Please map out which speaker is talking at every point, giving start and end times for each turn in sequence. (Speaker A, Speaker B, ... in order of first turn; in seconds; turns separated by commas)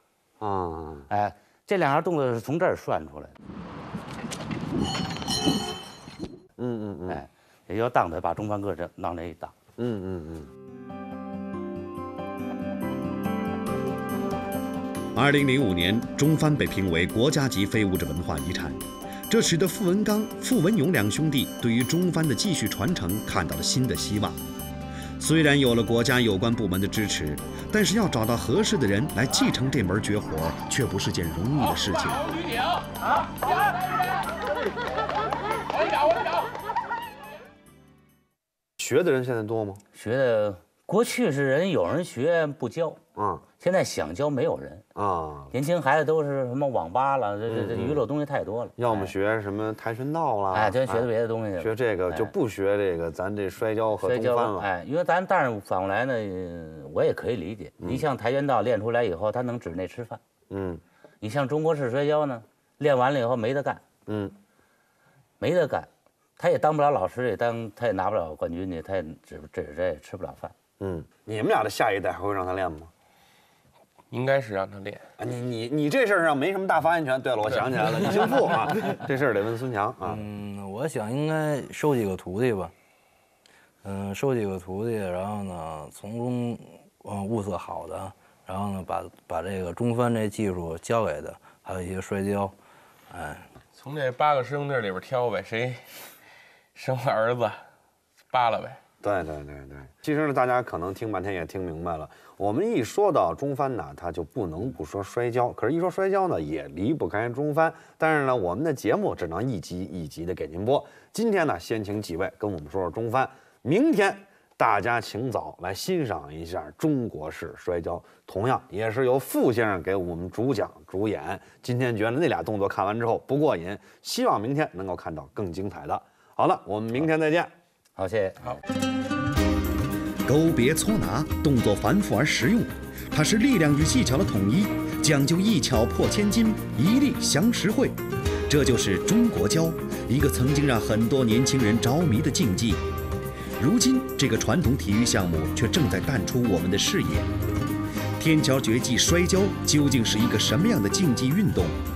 Speaker A: 0.4-1.1, Speaker B: 1.1-3.3, Speaker A: 6.6-7.2, Speaker B: 7.1-9.5, Speaker A: 9.8-10.5, Speaker C: 15.1-24.4, Speaker C: 25.2-32.3, Speaker A: 38.8-39.8, Speaker B: 39.9-43.0, Speaker A: 43.1-43.4, Speaker B: 43.6-44.8, Speaker A: 44.9-45.5, Speaker B: 45.5-49.1, Speaker A: 47.5-48.0, Speaker A: 48.8-51.1, Speaker B: 50.5-52.3, Speaker A: 51.6-54.7, Speaker B: 54.0-60.2, Speaker A: 60.5-60.8, Speaker B: 61.2-63.8, Speaker A: 64.1-64.3, Speaker B: 65.4-70.5, Speaker A: 70.8-72.9, Speaker D: 74.1-75.0, Speaker A: 75.2-80.3, Speaker E: 80.0-82.7, Speaker E: 83.8-92.5, Speaker E: 93.1-93.5, Speaker D: 93.7-96.1, Speaker D: 96.7-97.7, Speaker D: 98.3-98.8, Speaker A: 99.0-127.5, Speaker B: 128.0-128.6, Speaker C: 130.2-142.8, Speaker C: 143.6-147.3, Speaker C: 148.2-151.8